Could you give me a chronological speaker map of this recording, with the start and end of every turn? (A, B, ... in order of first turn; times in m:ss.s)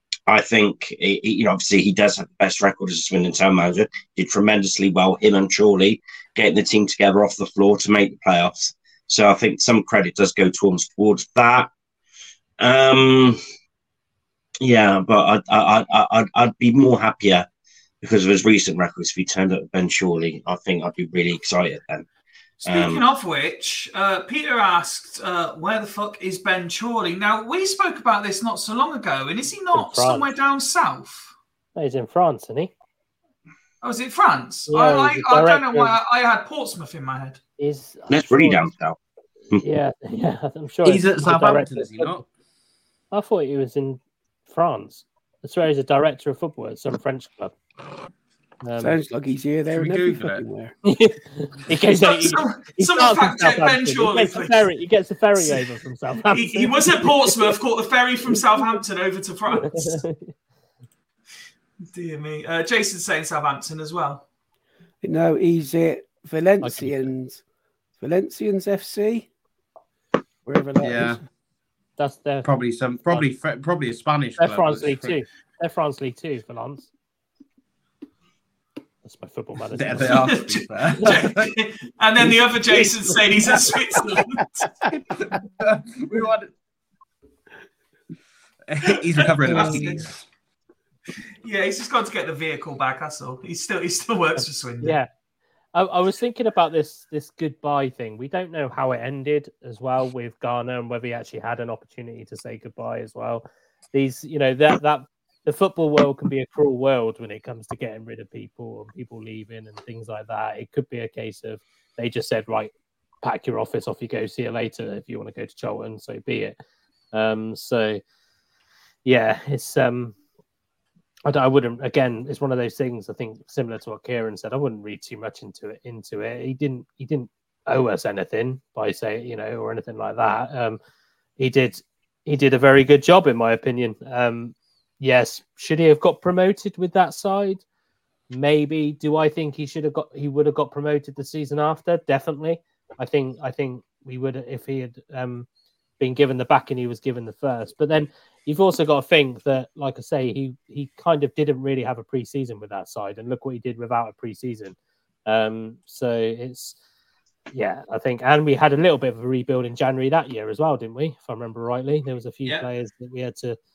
0:00.3-0:11.7 A
0:12.6-0:13.4 A
0:14.6-0:17.5 A
0:18.0-0:22.1 A
0:22.6-0:31.3 B
0:22.6-0:23.0 A
0:29.7-0:30.3 C
0:31.8-0:32.7 C
0:33.8-0:37.4 B
0:34.7-0:36.0 C
0:37.6-0:38.7 C
0:38.1-0:39.0 A
0:39.6-0:42.2 C
0:40.8-0:42.3 D
0:43.1-0:47.6 C
0:48.6-0:49.0 C
0:48.8-0:50.7 E
0:49.7-0:50.4 D
0:50.8-0:57.5 C
0:52.0-0:54.7 B
0:56.3-1:00.0 B
0:59.7-1:00.3 C
1:01.9-1:04.2 B
1:05.0-1:07.4 E
1:06.6-1:07.1 C
1:08.0-1:09.3 E
1:10.5-1:11.2 E
1:10.8-1:11.2 D
1:12.0-1:12.5 C
1:12.4-1:15.2 D
1:14.4-1:16.9 C
1:19.0-1:20.2 C
1:19.7-1:21.5 D
1:20.1-1:24.6 B
1:24.8-1:25.3 E
1:25.2-1:26.5 D
1:28.7-1:30.2 D
1:29.2-1:30.1 B
1:29.5-1:29.8 C
1:31.4-1:35.0 B
1:34.4-1:35.1 C
1:35.7-1:56.6 C
1:57.1-1:58.0 C
1:59.0-2:00.2 C
2:01.3-2:10.8 C
2:11.4-2:17.6 C
2:18.3-2:25.5 C
2:26.0-2:34.8 C
2:35.3-2:36.8 C
2:37.5-2:43.6 C